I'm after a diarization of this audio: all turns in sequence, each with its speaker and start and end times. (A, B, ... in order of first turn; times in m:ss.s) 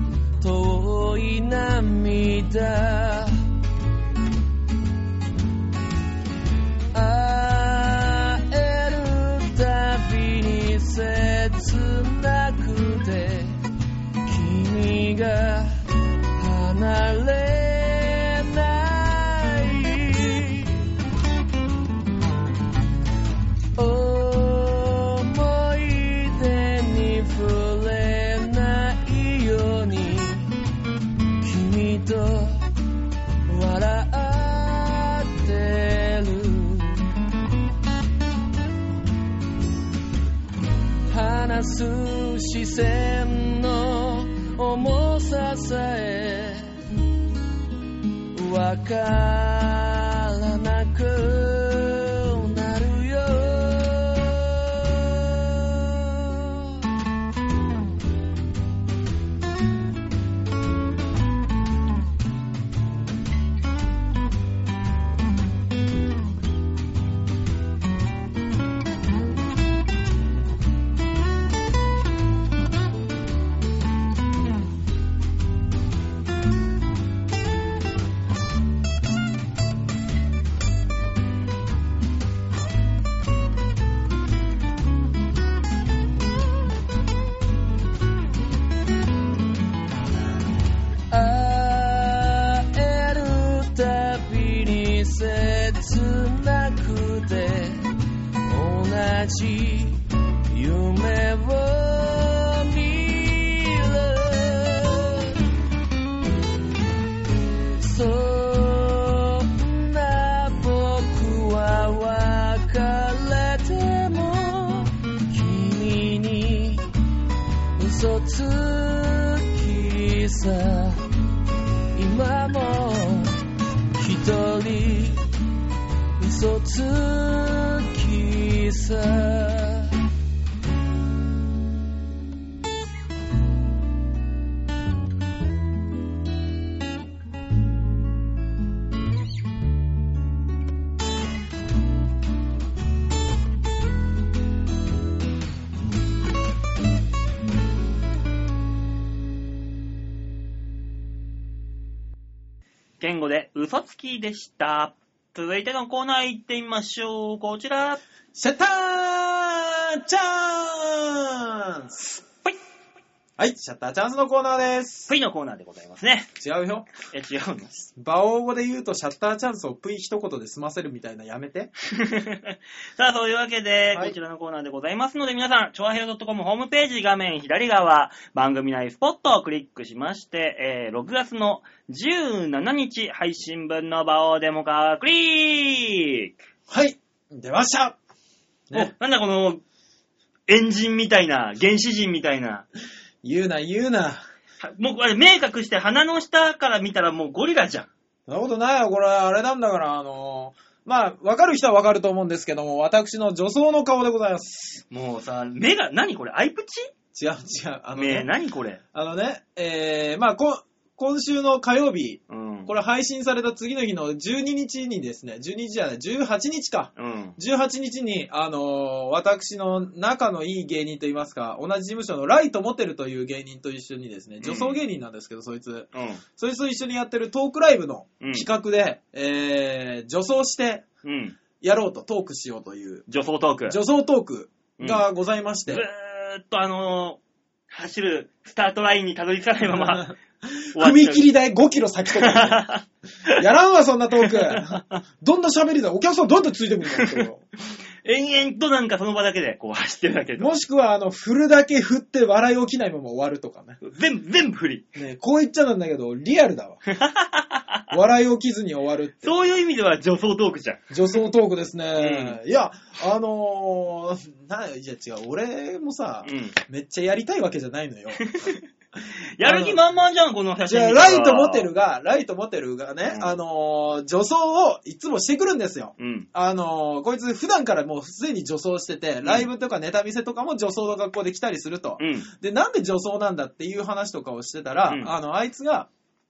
0:00.4-0:03.5 A
0:06.9-0:13.6 A
0:14.3-0:20.9 A
0:23.8-0:30.6 A
0:31.4-0:32.7 A
0:33.5-0:37.1 A
0:41.1-0:46.8 A
0:48.3-0:56.8 A
1:31.1-1:45.4 A
1:47.8-1:56.9 A
1:57.8-2:01.0 A
2:02.0-2:03.4 A
2:04.0-2:05.3 A
2:06.2-2:10.1 A
2:33.0-2:38.0 B
2:38.3-2:42.0 C
2:42.1-2:42.6 B
2:43.4-2:45.1 C
2:45.1-2:46.3 B
2:46.4-2:46.9 C
2:47.1-2:47.8 B
2:47.9-2:51.7 C
2:51.9-3:06.3 B
3:06.7-3:08.0 C
3:08.7-3:09.6 B
3:10.5-3:12.6 B
3:13.2-3:14.2 C
3:14.6-3:17.9 B
3:18.3-3:24.8 C
3:24.9-3:26.9 B
3:27.1-3:28.3 C
3:28.0-3:28.8 B
3:28.9-3:50.8 C
3:32.3-3:32.7 B
3:37.0-3:37.4 B
3:44.4-3:44.8 B
3:45.9-3:46.2 B
3:48.2-3:48.5 B
3:51.0-3:51.4 B
3:51.6-3:53.1 C
3:53.1-3:53.8 B
3:53.7-3:55.9 C
3:54.8-3:55.0 B
3:55.7-4:00.1 B
3:59.7-4:02.7 C
4:00.7-4:01.3 B
4:02.2-4:03.4 B
4:03.4-4:07.5 C
4:04.2-4:05.0 B
4:07.0-4:07.3 B
4:08.0-4:10.5 B
4:10.4-4:13.8 C
4:13.8-4:14.9 B
4:15.0-4:16.8 C
4:16.9-4:17.8 B
4:17.9-4:19.3 C
4:19.2-4:20.9 B
4:20.9-4:28.3 C
4:22.0-4:22.4 B
4:26.2-4:26.6 B
4:28.2-4:28.6 B
4:29.4-4:31.7 B
4:29.4-4:29.8 C
4:30.7-4:45.9 C
4:33.1-4:33.4 B
4:36.0-4:36.3 B
4:42.0-4:42.3 B